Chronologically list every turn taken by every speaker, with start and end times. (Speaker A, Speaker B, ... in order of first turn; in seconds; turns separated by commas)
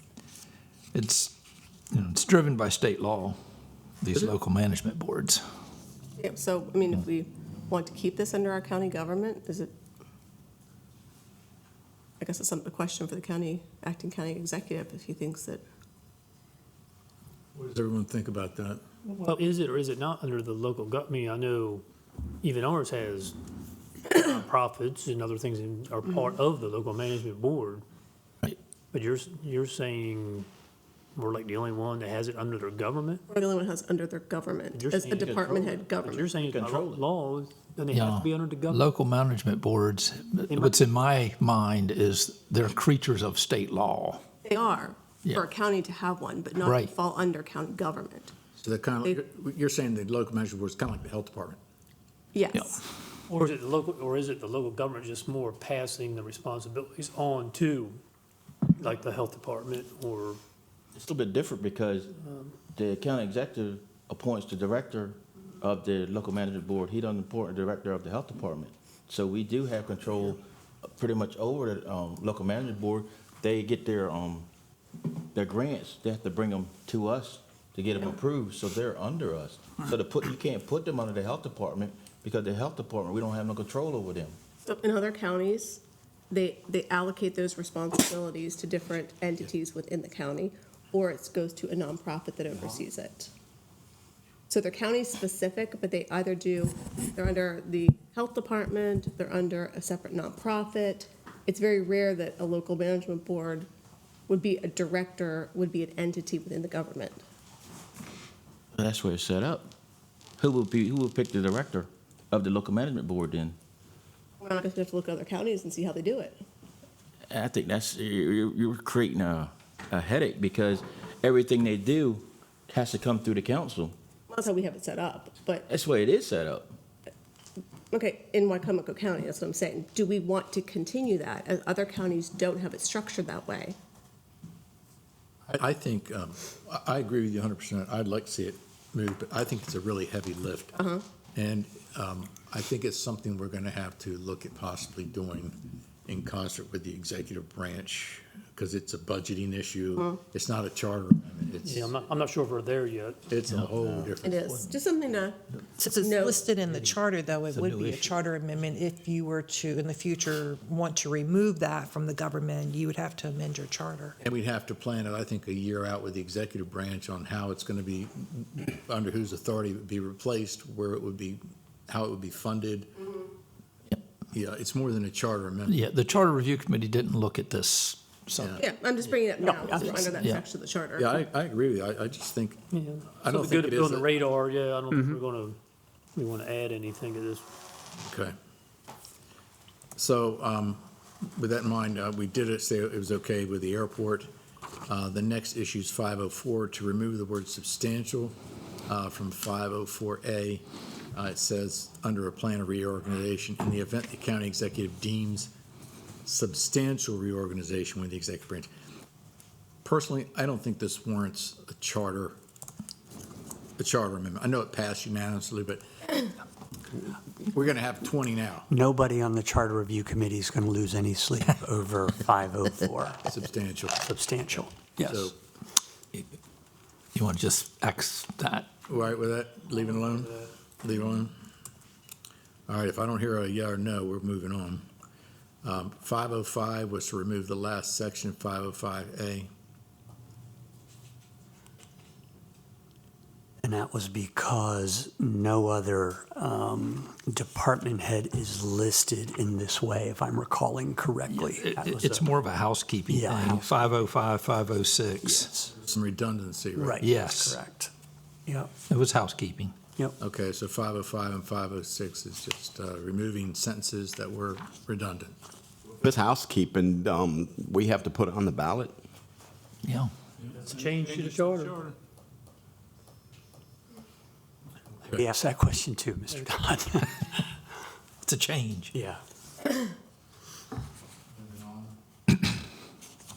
Speaker A: 0.9-1.3, Speaker A: 1.9-3.4, Speaker A: 4.0-5.4, Speaker B: 6.2-9.7, Speaker B: 12.2-15.6, Speaker C: 17.5-18.8, Speaker D: 19.1-21.8, Speaker D: 22.4-23.3, Speaker D: 24.1-27.8, Speaker D: 28.9-30.5, Speaker D: 31.1-33.2, Speaker B: 33.3-36.3, Speaker D: 34.7-38.9, Speaker E: 35.2-35.8, Speaker E: 36.4-37.0, Speaker A: 37.9-44.2, Speaker D: 40.5-40.8, Speaker B: 44.5-48.3, Speaker A: 46.6-46.9, Speaker C: 48.6-51.6, Speaker B: 52.3-52.8, Speaker D: 53.3-58.0, Speaker D: 58.8-60.4, Speaker E: 61.0-62.1, Speaker D: 62.1-62.5, Speaker E: 62.7-74.5, Speaker E: 75.3-84.4, Speaker B: 84.7-93.3, Speaker B: 94.5-103.7, Speaker B: 104.3-107.2, Speaker E: 108.8-109.7, Speaker E: 110.4-113.5, Speaker B: 114.4-116.4, Speaker E: 117.3-123.9, Speaker B: 124.3-125.7, Speaker E: 125.7-126.7, Speaker B: 127.9-133.8, Speaker C: 135.5-140.8, Speaker B: 140.8-141.0, Speaker C: 141.3-152.0, Speaker D: 151.6-153.2, Speaker C: 153.3-154.4, Speaker E: 153.8-154.1, Speaker B: 154.2-155.4, Speaker A: 154.5-154.8, Speaker F: 155.8-164.2, Speaker B: 155.9-156.4, Speaker A: 157.5-158.2, Speaker C: 164.2-173.1, Speaker C: 174.3-175.8, Speaker A: 175.7-178.6, Speaker C: 178.4-178.6, Speaker B: 178.6-181.2, Speaker G: 179.4-179.8, Speaker A: 179.8-180.4, Speaker C: 181.0-182.6, Speaker D: 182.7-185.6, Speaker C: 183.1-184.1, Speaker G: 184.9-185.2, Speaker D: 186.2-187.4, Speaker C: 188.0-188.3, Speaker C: 190.0-190.8, Speaker C: 191.3-194.3, Speaker C: 194.9-198.3, Speaker C: 198.9-205.5, Speaker C: 206.2-208.7, Speaker C: 209.8-212.4, Speaker C: 213.8-215.8, Speaker C: 217.4-218.7, Speaker G: 218.7-223.2, Speaker C: 223.2-224.1, Speaker G: 224.1-225.3, Speaker C: 225.0-225.3, Speaker A: 227.2-228.7, Speaker C: 228.9-231.3, Speaker C: 232.7-234.8, Speaker C: 235.6-239.5, Speaker G: 243.6-252.1, Speaker A: 251.3-255.5, Speaker G: 253.1-253.9, Speaker G: 255.2-255.7, Speaker C: 255.8-257.0, Speaker G: 256.8-257.9, Speaker A: 257.0-257.6, Speaker A: 258.9-259.8, Speaker C: 260.2-265.4, Speaker H: 266.0-268.9, Speaker A: 269.8-270.1, Speaker D: 270.6-271.9, Speaker G: 275.1-277.5, Speaker A: 278.2-278.9, Speaker G: 278.9-279.2, Speaker C: 281.4-281.9